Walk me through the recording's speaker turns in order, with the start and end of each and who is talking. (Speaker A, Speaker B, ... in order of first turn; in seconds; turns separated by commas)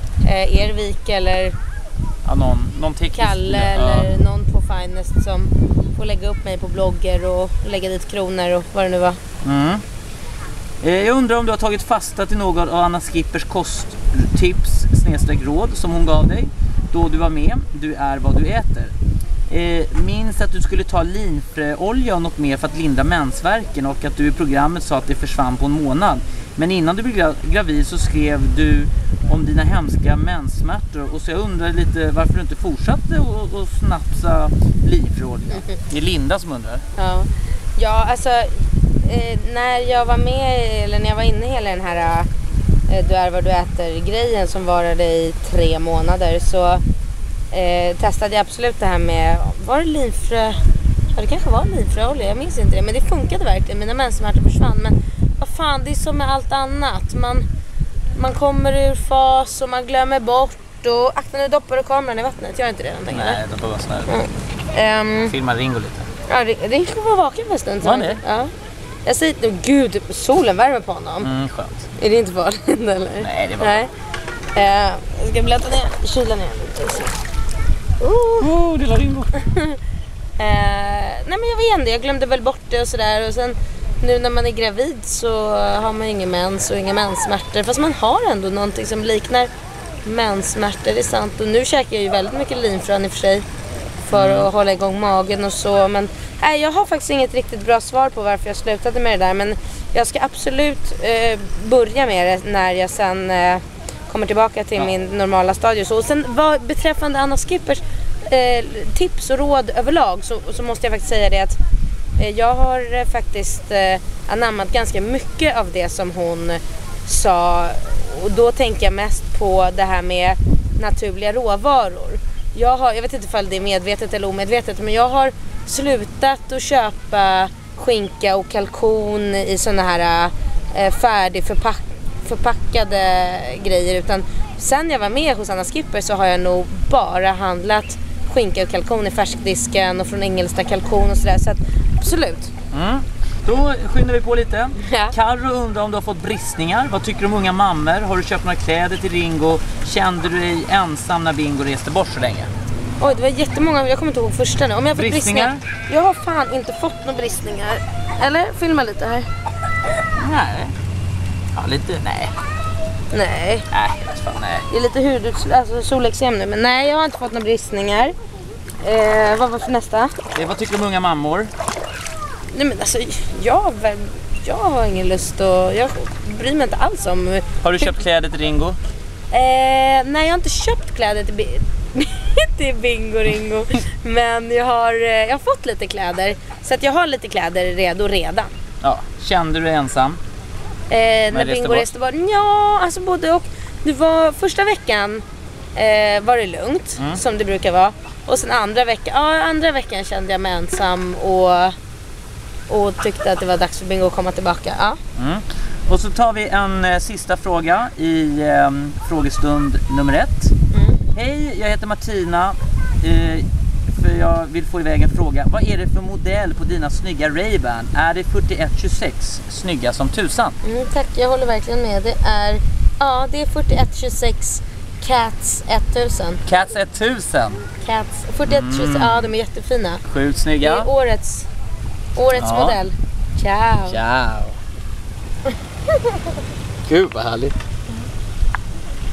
Speaker A: 0.2-1.6, Speaker B: 2.2-4.1, Speaker A: 3.1-9.2, Speaker B: 9.4-9.8, Speaker B: 10.8-18.9, Speaker B: 19.5-36.8, Speaker A: 37.0-42.3, Speaker A: 42.9-46.8, Speaker A: 47.5-50.6, Speaker A: 51.1-57.5, Speaker A: 58.2-63.4, Speaker B: 63.1-64.2, Speaker A: 64.1-65.3, Speaker B: 65.3-66.1, Speaker A: 66.3-68.5, Speaker B: 67.8-68.2, Speaker A: 69.0-71.3, Speaker B: 71.2-71.9, Speaker A: 72.0-73.9, Speaker B: 73.2-73.8, Speaker A: 74.5-77.2, Speaker A: 78.0-78.5, Speaker B: 78.4-79.4, Speaker A: 79.4-79.8, Speaker A: 80.4-89.5, Speaker A: 90.0-93.5, Speaker A: 94.1-111.6, Speaker B: 94.1-94.5, Speaker A: 112.2-142.5, Speaker B: 142.7-152.5, Speaker A: 144.8-145.1, Speaker A: 153.0-159.3, Speaker B: 154.9-155.6, Speaker B: 160.2-160.7, Speaker B: 161.5-162.3, Speaker A: 163.1-163.7, Speaker B: 163.7-164.7, Speaker A: 164.7-168.1, Speaker A: 168.8-170.2, Speaker B: 170.3-171.5, Speaker A: 172.5-177.9, Speaker B: 177.6-178.8, Speaker A: 179.3-188.5, Speaker B: 188.8-190.2, Speaker A: 190.9-195.2, Speaker B: 191.3-191.9, Speaker A: 195.8-201.8, Speaker A: 202.7-205.0, Speaker B: 205.2-210.5, Speaker A: 210.7-211.0, Speaker B: 211.1-220.6, Speaker A: 220.6-226.4, Speaker B: 226.5-227.6, Speaker A: 227.8-230.0, Speaker B: 228.4-229.3, Speaker B: 230.1-230.9, Speaker A: 230.6-231.5, Speaker A: 232.2-234.0, Speaker B: 232.3-232.8, Speaker B: 233.9-234.6, Speaker B: 236.8-237.6